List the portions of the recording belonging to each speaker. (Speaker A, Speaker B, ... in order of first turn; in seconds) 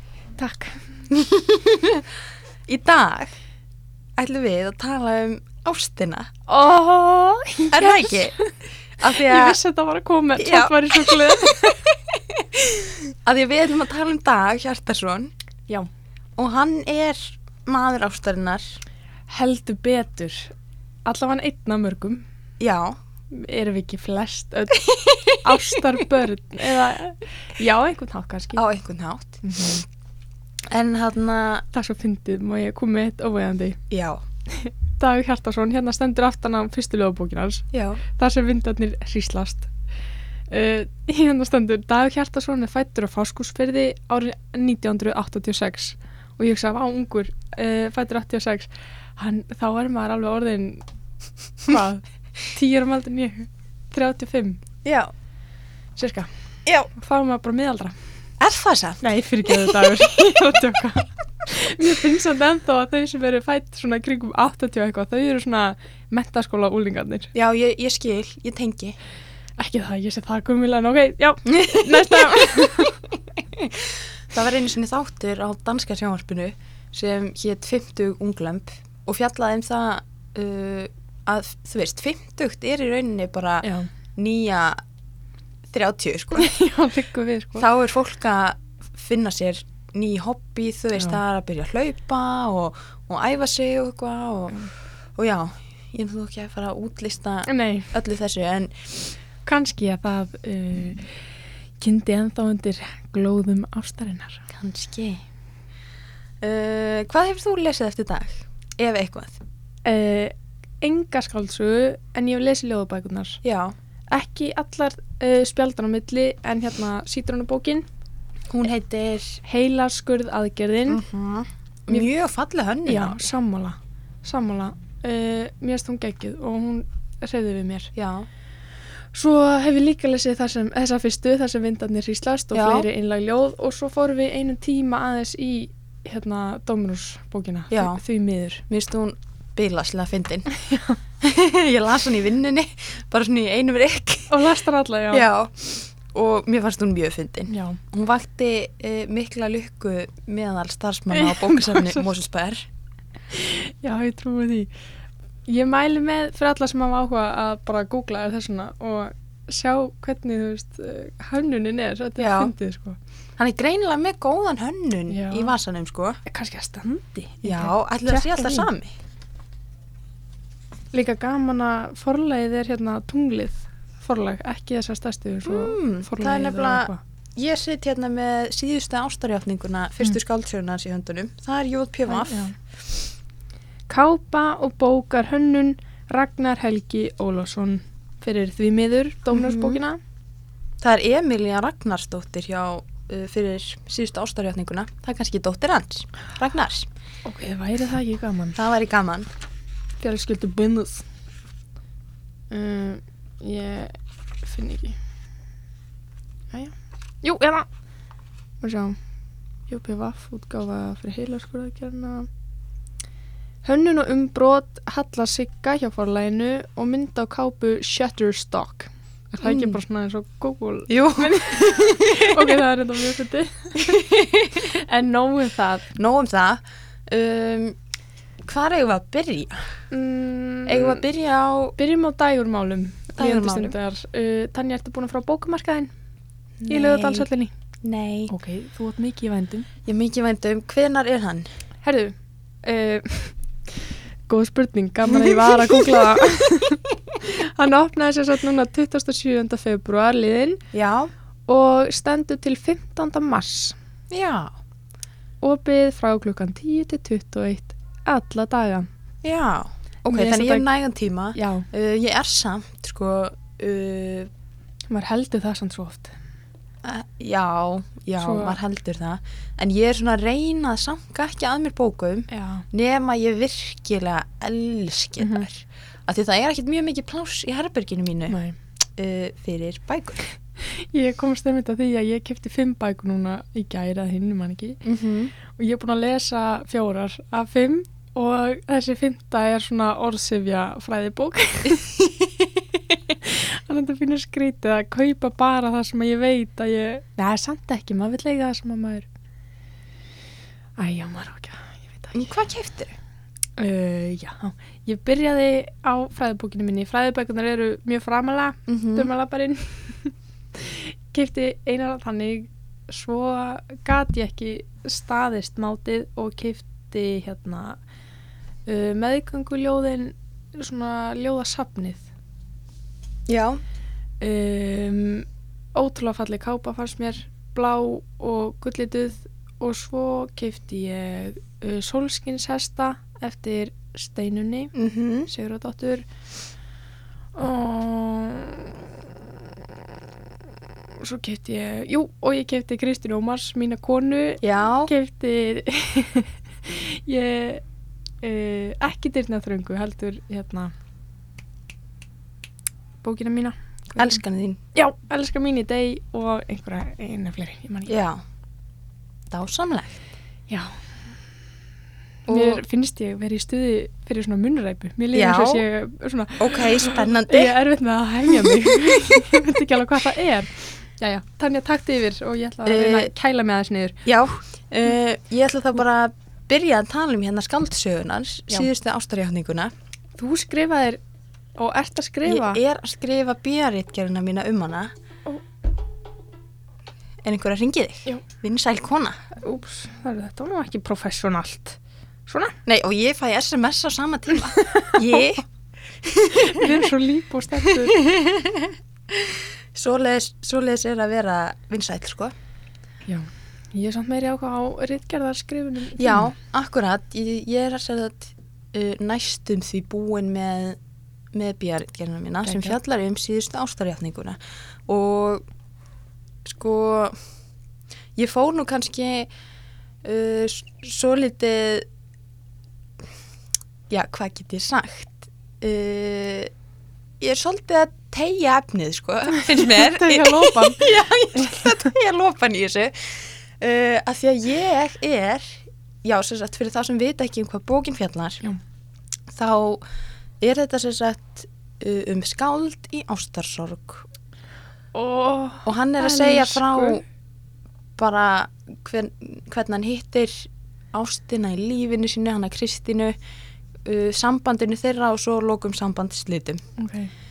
Speaker A: 0.4-1.0, 6.5-8.5, 9.2-11.8, 19.3-20.5, 21.1-22.2, 23.3-28.6, 29.4-29.8, 31.7-33.8, 34.5-39.7, 40.5-50.8, 51.6-54.6, 56.0-56.3, 56.9-57.9, 59.0-67.3, 69.6-72.9, 83.6-83.9, 86.3-87.7, 97.5-97.9, 99.4-101.2, 101.8-104.5, 109.8-113.4, 114.1-117.9, 119.4-121.0, 122.8-127.9, 129.1-138.6, 140.5-141.0, 144.3-145.3, 147.5-147.8, 151.1-152.0, 153.3-154.7, 155.5-163.0, 165.1-165.5, 166.2-168.7, 170.9-177.0, 182.1-182.5, 183.9-190.0, 197.2-198.6, 200.0-201.0, 202.5-205.0, 206.5-207.7, 208.6-209.0, 209.7-212.3, 213.6-225.9, 229.9-231.0, 231.8-235.9, 236.7-237.5, 238.3-239.7, 241.8-243.3, 244.3-250.6, 251.5-253.8, 255.4-258.9, 260.1-260.7, 261.3-261.7, 264.9-266.1, 268.2-268.6, 272.3-272.6, 275.2-275.5, 278.3-278.6, 280.6-284.8, 285.4-292.0, 293.2-299.1, 300.8-302.2, 303.6-317.8, 318.6-322.1, 324.2-334.7, 335.3-336.1, 337.3-338.8, 339.4-340.0, 340.9-347.6, 348.2-350.7, 353.0-354.2, 354.7-358.0, 362.3-374.0, 380.2-381.0, 381.6-382.6, 389.4-392.6, 394.6-395.0, 396.3-398.0, 403.1-406.3, 412.4-412.8, 429.3-431.7, 444.9-447.0, 456.8-457.1
Speaker B: 1.1-2.0, 2.7-3.3, 4.2-6.3, 7.7-8.3, 9.0-9.6, 10.4-15.3, 16.4-18.8, 22.6-23.0, 24.8-25.6, 28.6-29.4, 30.7-31.6, 33.9-34.2, 37.7-38.0, 54.8-55.1, 58.4-60.0, 67.3-69.0, 71.5-72.7, 73.3-84.8, 85.7-86.5, 87.6-94.6, 95.2-99.1, 104.5-105.2, 106.4-109.4, 113.4-113.7, 118.5-119.4, 120.9-123.3, 127.9-128.3, 132.5-132.9, 137.7-138.0, 138.7-140.5, 141.2-144.3, 145.1-152.7, 162.2-162.5, 163.4-166.2, 167.4-168.9, 175.4-182.4, 189.3-189.8, 190.8-196.9, 198.6-199.3, 219.4-219.8, 220.9-222.6, 223.8-224.7, 225.9-227.8, 228.4-229.6, 230.7-231.8, 233.2-233.8, 236.6-237.3, 237.8-238.3, 239.8-241.5, 245.1-246.2, 250.7-251.1, 254.1-254.5, 259.2-264.3, 266.8-278.4, 278.9-280.2, 284.8-285.3, 291.8-292.6, 302.1-302.9, 308.7-309.1, 323.3-323.6, 334.7-335.3, 344.4-344.9, 354.0-354.6, 357.9-358.2, 359.3-360.0, 362.3-362.6, 365.1-365.6, 366.4-367.6, 368.3-368.7, 372.6-373.1, 374.1-379.7, 382.2-384.9, 387.2-389.2, 392.6-396.8, 397.6-402.3, 406.0-410.8, 411.3-415.4, 416.4-417.1, 418.1-419.3, 420.0-421.9, 423.9-426.5, 427.2-438.4, 439.3-439.8, 440.4-444.1, 445.6-447.0, 448.0-453.1, 453.8-456.6